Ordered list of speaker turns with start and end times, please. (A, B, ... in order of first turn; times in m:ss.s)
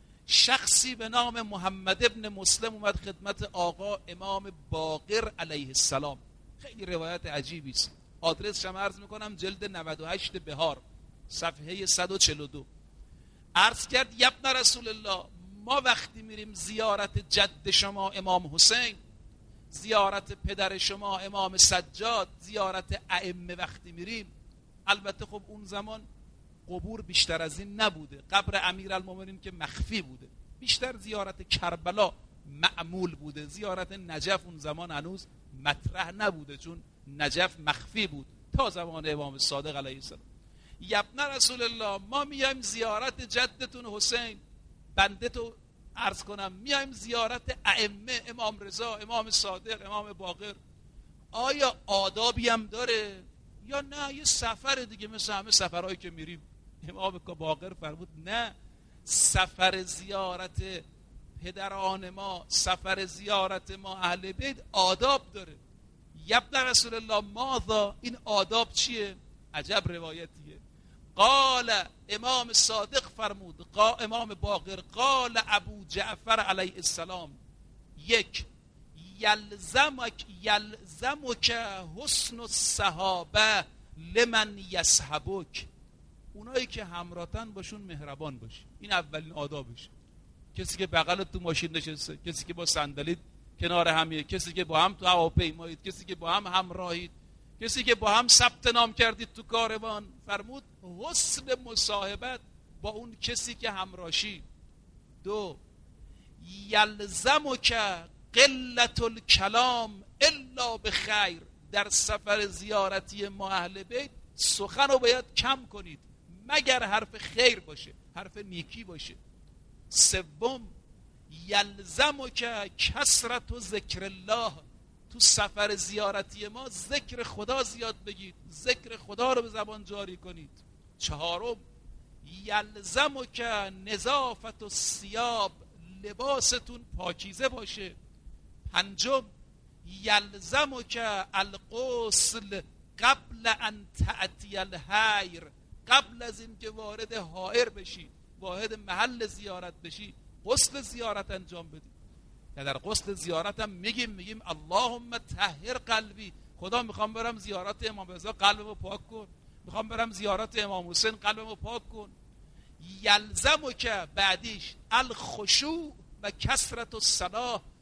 0:00.3-0:12.7 A
0:13.6-0:19.0 A
0:19.7-0:24.3 A
0:24.8-0:26.1 A
0:26.7-0:40.2 A
0:40.8-0:44.4 A
0:44.9-0:50.6 A
0:51.3-1:00.8 A
1:01.4-1:05.6 A
1:06.1-1:10.6 A
1:11.2-1:17.4 A
1:18.0-1:25.7 A
1:26.3-1:29.9 A
1:30.5-1:44.4 A
1:45.2-1:45.6 A
1:46.4-1:59.2 A
1:59.9-2:00.7 A
2:01.3-2:11.6 A
2:12.2-2:18.0 A
2:18.7-2:19.3 A
2:19.8-2:31.9 A
2:32.5-2:42.1 A
2:42.8-2:47.6 A